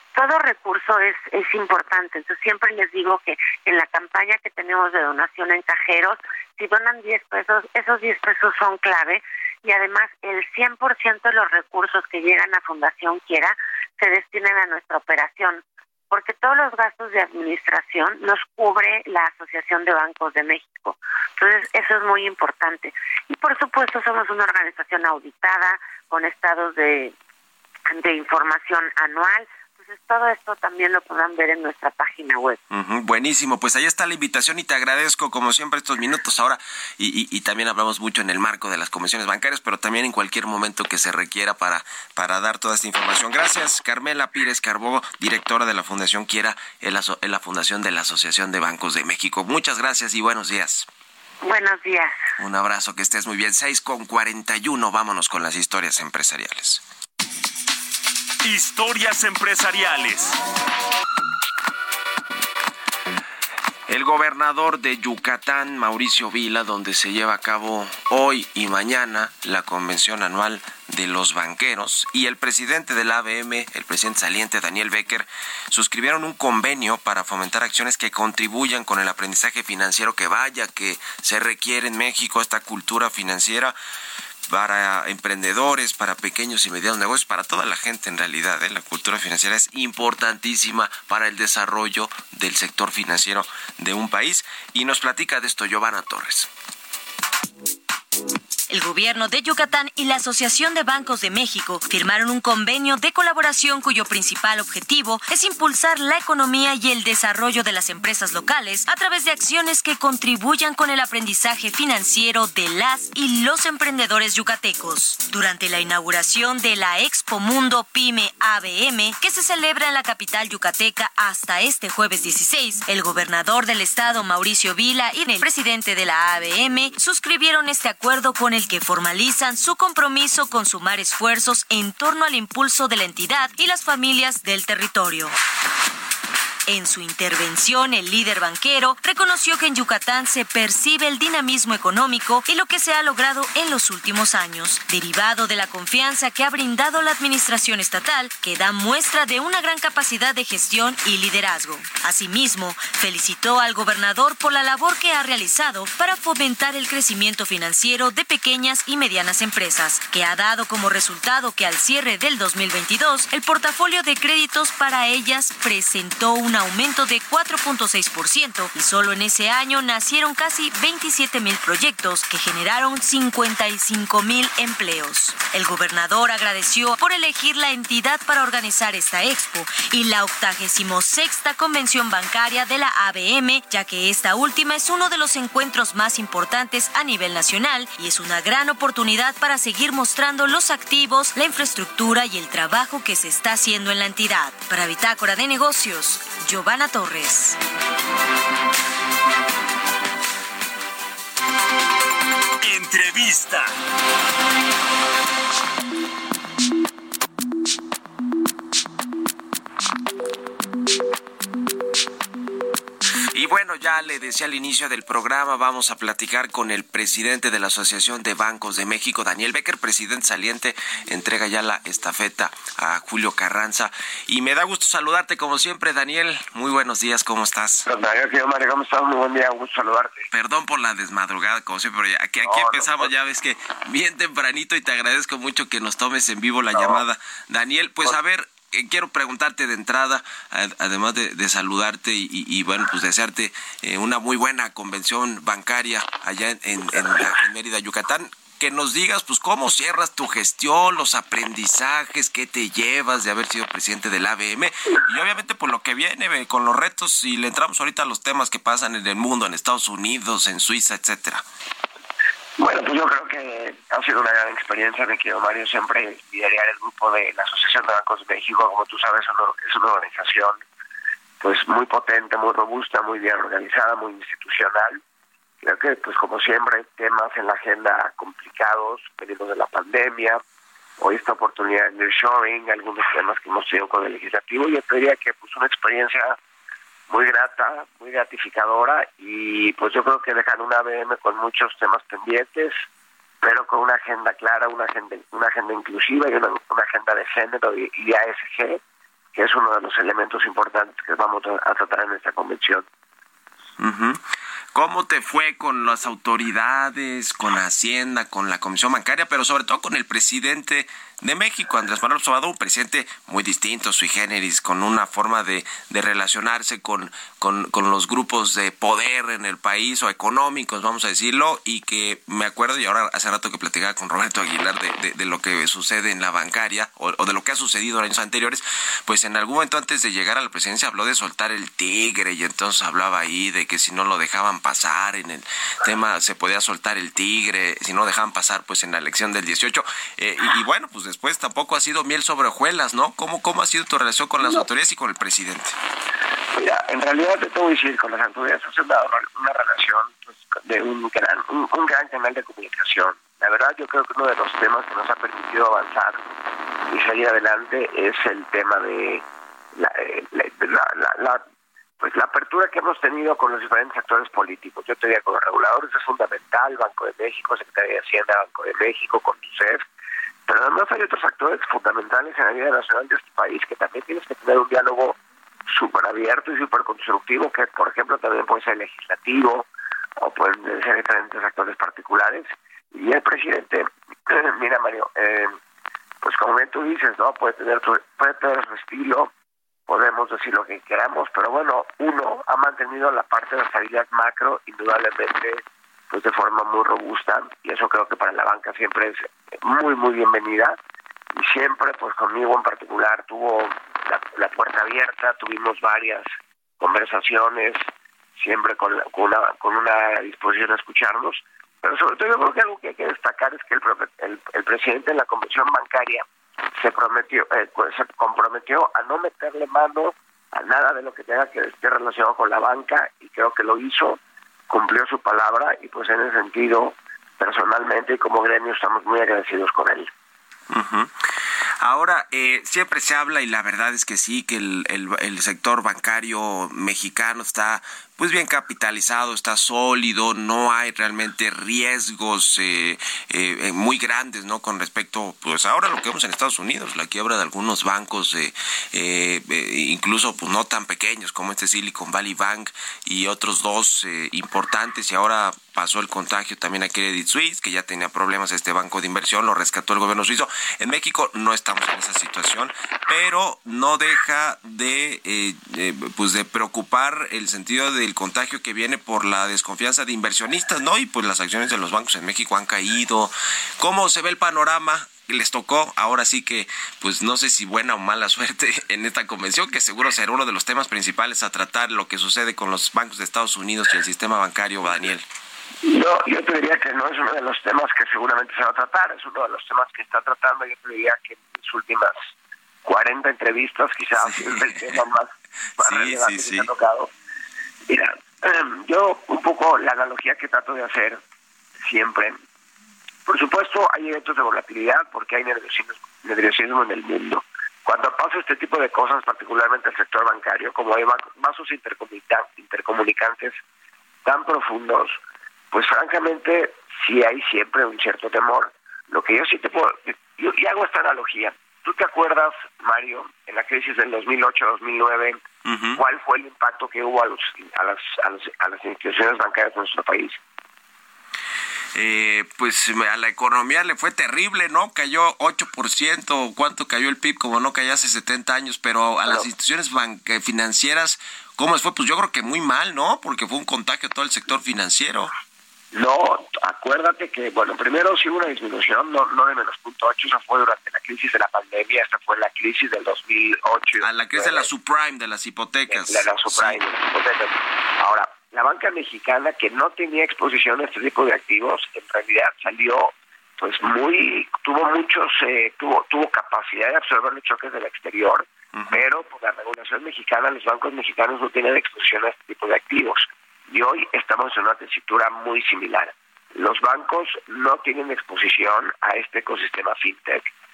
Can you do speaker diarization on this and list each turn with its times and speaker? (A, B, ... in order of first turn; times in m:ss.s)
0:00.1-0:27.1 A
0:27.9-0:32.6 A
0:32.7-0:50.9 B
0:51.4-0:52.2 A
0:52.4-0:56.8 B
0:58.4-1:00.4 C
1:03.9-1:23.7 B
1:24.5-1:36.5 B
1:38.7-2:15.3 D
2:16.7-3:17.6 D
3:22.6-3:23.7 C
3:33.3-3:47.9 B
3:47.8-3:50.3 E
3:50.3-4:21.4 B
3:52.4-3:52.9 E
3:56.7-3:57.0 E
4:22.6-4:30.6 E
4:31.4-4:35.0 E
4:35.6-4:40.4 E
4:41.0-4:46.4 E
4:47.1-4:52.8 E
4:53.4-4:58.8 E
4:59.3-5:02.9 E
5:03.8-5:04.2 B
5:04.7-5:45.7 B
5:46.5-5:56.2 E
5:56.9-5:59.2 E
5:59.8-6:01.4 E
6:02.0-6:09.8 E
6:10.5-6:15.2 E
6:15.7-6:19.7 E
6:20.2-6:25.6 E
6:26.2-6:29.3 E
6:29.9-6:40.8 E
6:41.4-6:46.3 E
6:46.8-6:47.8 E
6:48.4-6:56.2 E
6:56.8-7:10.1 E
7:10.7-7:11.2 B
7:11.8-8:05.2 B
8:05.8-8:12.2 E
8:12.8-8:17.1 E
8:14.2-8:14.8 B
8:15.8-8:16.7 B
8:17.9-8:21.2 E
8:21.8-8:22.4 E
8:23.2-8:33.6 E
8:34.2-8:35.2 E
8:35.7-8:45.4 E
8:45.6-8:46.0 B
8:46.0-8:50.4 E
8:51.9-9:05.3 B
9:05.9-9:14.7 E
9:14.0-9:16.8 B
9:15.9-9:40.5 E
9:28.7-9:29.1 B